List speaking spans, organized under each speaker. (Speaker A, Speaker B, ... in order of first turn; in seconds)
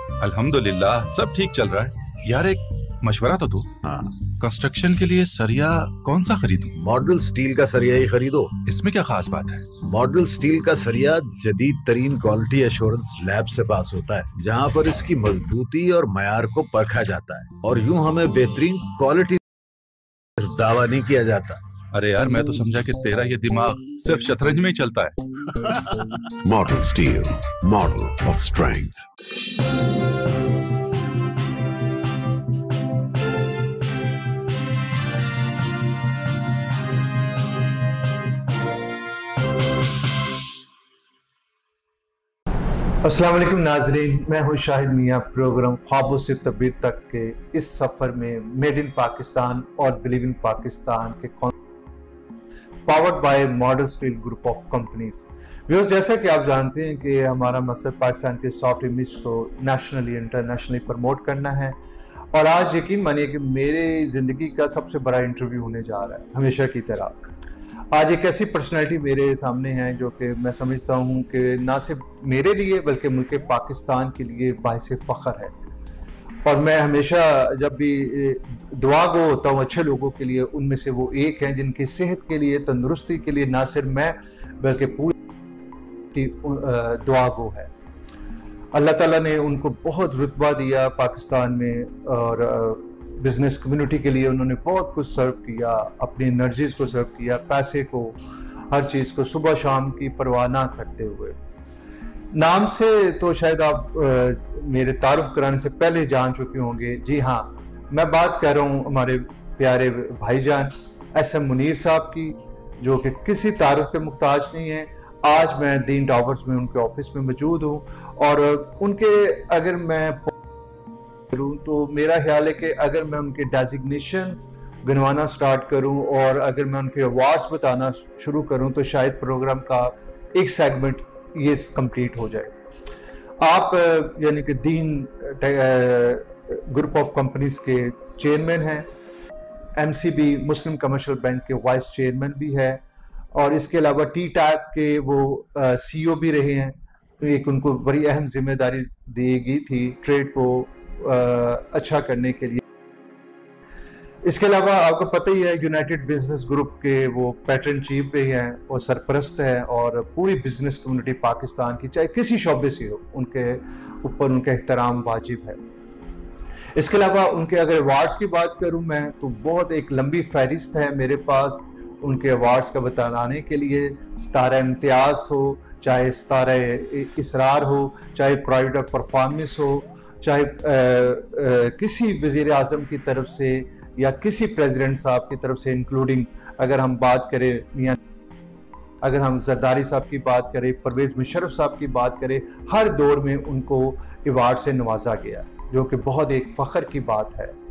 Speaker A: 0.2-3.7, 4.4-6.7, 8.7-9.7, 21.9-25.1
Speaker B: 3.8-4.1, 6.8-8.5, 9.8-19.4, 20.4-21.6
Speaker C: 26.4-29.1
Speaker D: 43.0-51.5, 52.9-61.8, 62.3-67.3, 67.9-75.5, 76.4-85.2, 86.1-87.7, 88.7-98.2, 98.7-101.4, 102.3-120.3, 121.3-132.5, 133.4-138.9, 139.8-142.8, 143.3-152.6, 154.2-165.6, 166.8-188.0, 189.0-197.6